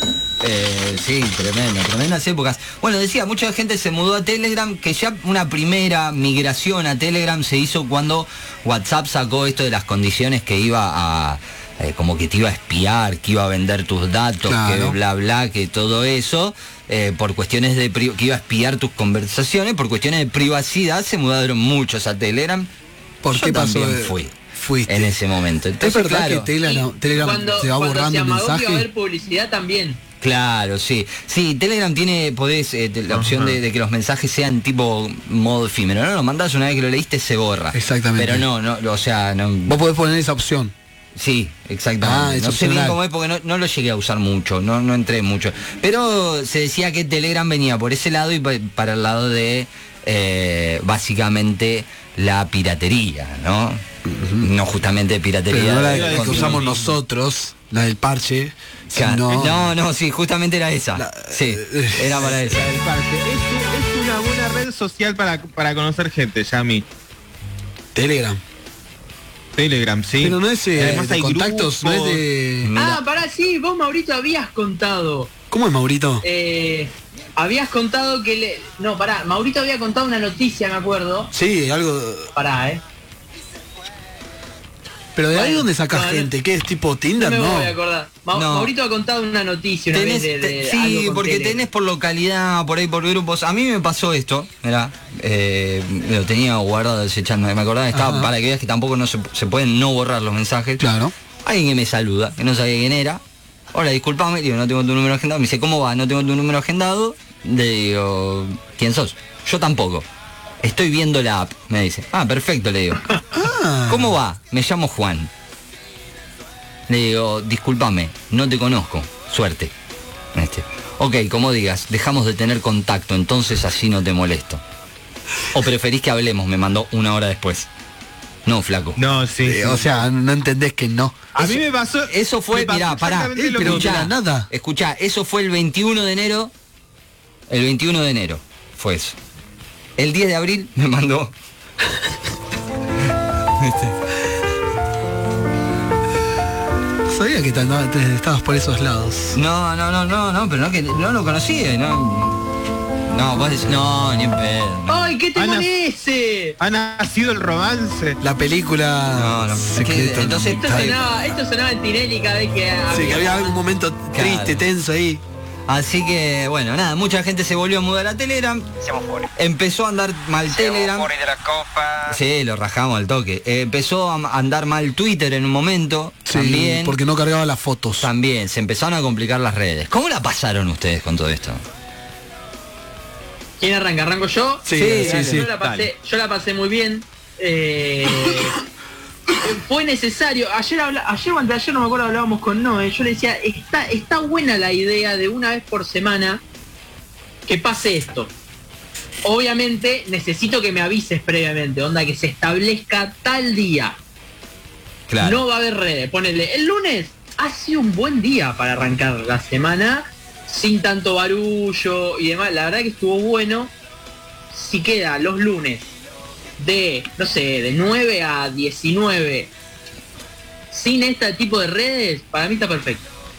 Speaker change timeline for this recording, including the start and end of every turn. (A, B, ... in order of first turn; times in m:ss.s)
0:00.4-0:22.7 A
0:14.4-0:15.0 B
0:23.2-0:25.2 B
0:23.3-0:24.4 A
0:24.9-0:26.5 A
0:25.8-0:28.9 B
0:26.6-0:30.0 C
0:27.3-0:27.6 D
0:30.2-0:39.8 A
0:33.1-0:33.6 D
0:37.7-0:38.5 B
0:39.7-0:40.7 B
0:41.2-0:53.8 A
0:42.0-0:43.0 B
0:54.0-0:54.5 B
0:54.4-0:56.8 A
0:55.5-0:59.8 B
0:55.8-0:56.8 D
0:58.9-1:02.7 A
1:01.0-1:02.5 B
1:02.4-1:06.9 D
1:08.0-1:08.4 B
1:09.6-1:12.2 D
1:10.2-1:12.7 B
1:12.6-1:13.0 A
1:12.8-1:15.3 C
1:15.5-1:16.2 B
1:16.2-1:21.3 C
1:21.3-1:22.3 B
1:22.4-1:22.8 C
1:25.2-1:27.8 B
1:25.3-1:26.3 C
1:27.2-1:31.6 C
1:28.3-1:28.7 A
1:29.9-1:40.8 A
1:37.9-1:38.3 B
1:40.8-1:41.1 B
1:41.4-1:43.2 A
1:43.7-1:50.1 A
1:50.6-1:53.1 A
1:53.3-1:54.2 B
1:53.9-1:55.3 A
1:56.9-1:59.7 A
2:00.4-2:04.6 A
2:05.5-2:07.7 A
2:08.5-2:09.0 A
2:09.0-2:09.8 D
2:09.4-2:11.3 B
2:11.4-2:14.1 D
2:12.1-2:16.5 A
2:13.3-2:14.5 B
2:17.5-2:19.2 A
2:20.0-2:21.3 A
2:23.6-2:24.0 A
2:27.1-2:29.4 B
2:29.3-2:32.4 A
2:33.1-2:35.1 A
2:34.9-2:36.6 C
2:35.4-2:35.7 D
2:36.6-2:38.2 D
2:38.2-2:41.0 B
2:39.1-2:41.1 A
2:40.6-2:43.6 C
2:42.9-2:45.2 B
2:44.1-2:44.6 A
2:45.7-2:48.8 A
2:48.8-2:49.3 E
2:49.3-2:51.1 A
2:50.5-2:52.2 E
2:52.0-2:57.0 A
2:56.2-2:58.1 B
2:58.0-3:01.6 A
3:03.6-3:08.6 C
3:04.6-3:05.5 B
3:04.7-3:05.4 A
3:05.0-3:05.9 D
3:09.4-3:16.4 C
3:17.5-3:18.3 C
3:19.2-3:24.0 C
3:25.1-3:25.4 A
3:25.2-3:33.7 C
3:34.5-3:35.9 C
3:36.6-3:39.5 C
3:40.7-3:43.1 C